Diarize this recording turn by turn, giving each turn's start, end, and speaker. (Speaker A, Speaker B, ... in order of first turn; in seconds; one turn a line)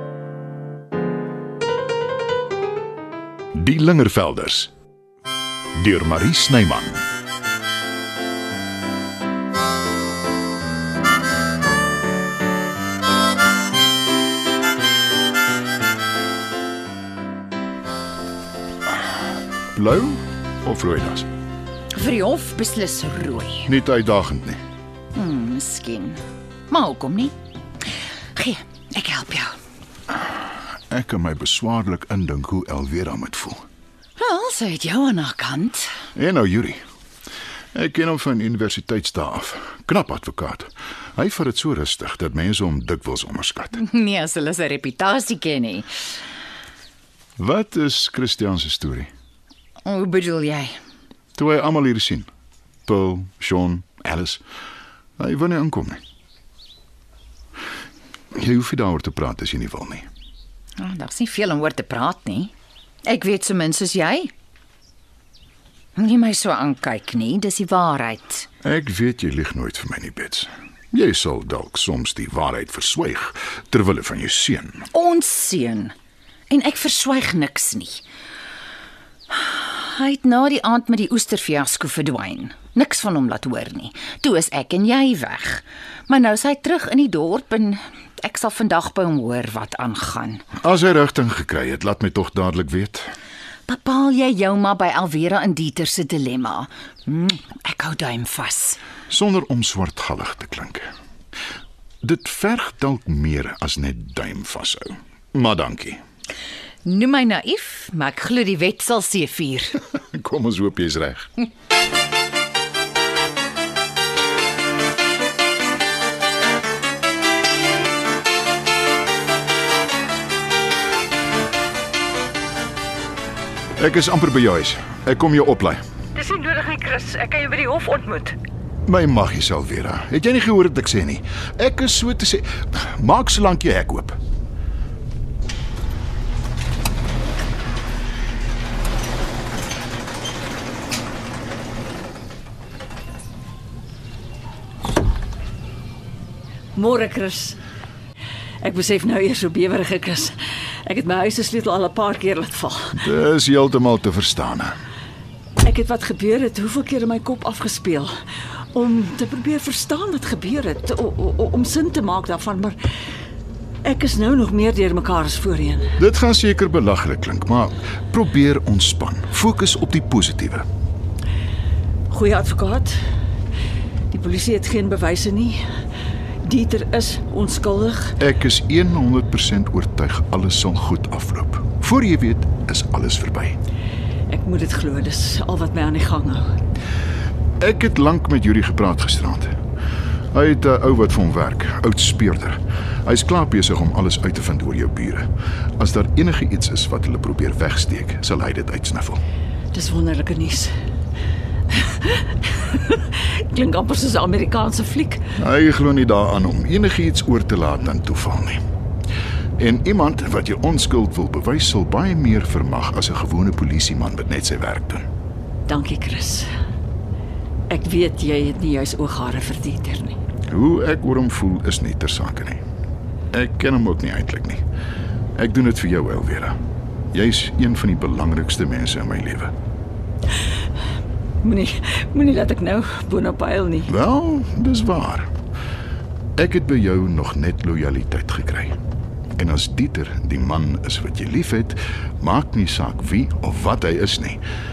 Speaker A: 3.5-4.7
Speaker A: 5.8-7.0
Speaker A: 19.7-21.3
Speaker B: 21.9-23.7
Speaker A: 23.7-24.6
Speaker B: 25.1-27.3
Speaker B: 28.4-29.5
Speaker A: 30.9-33.6
Speaker B: 34.2-35.9
Speaker A: 36.1-36.8
Speaker A: 37.7-43.8
Speaker B: 43.8-45.9
Speaker A: 47.4-49.1
Speaker B: 49.8-50.8
Speaker A: 51.4-52.3
Speaker A: 52.9-54.4
Speaker A: 55.2-56.0
Speaker A: 58.3-60.0
Speaker B: 60.8-62.5
Speaker B: 63.0-64.3
Speaker B: 66.0-68.5
Speaker A: 68.6-74.9
Speaker B: 74.9-75.9
Speaker B: 76.5-78.0
Speaker B: 79.3-90.4
Speaker A: 90.6-93.1
Speaker B: 93.7-98.8
Speaker A: 99.1-100.9
Speaker A: 102.0-106.0
Speaker B: 106.8-109.8
Speaker A: 110.0-111.4
Speaker A: 123.8-125.8
Speaker C: 126.2-128.4
Speaker A: 128.9-134.2
Speaker C: 146.8-147.6
Speaker C: 148.6-153.0
Speaker A: 153.0-154.8
Speaker C: 155.6-158.1
Speaker C: 158.7-162.8
Speaker C: 163.8-165.9
Speaker A: 166.0-170.7
Speaker C: 172.1-173.0
Speaker C: 174.1-175.6
Speaker C: 176.4-178.2
Speaker A: 178.2-183.6
Speaker C: 184.3-186.5
Speaker A: 187.6-189.5
Speaker A: 190.3-195.3
Speaker A: 195.8-199.2
Speaker C: 199.7-200.7
Speaker C: 201.7-205.2
Speaker A: 205.4-208.6
Speaker A: 209.6-215.1
Speaker C: 215.7-216.5
Speaker C: 217.7-220.2
Speaker A: 220.5-222.6
Speaker A: 223.3-224.6
Speaker A: 225.4-226.6
Speaker A: 227.1-229.5
Speaker C: 231.4-233.9
Speaker A: 233.9-235.3
Speaker A: 236.4-238.8
Speaker A: 239.4-244.4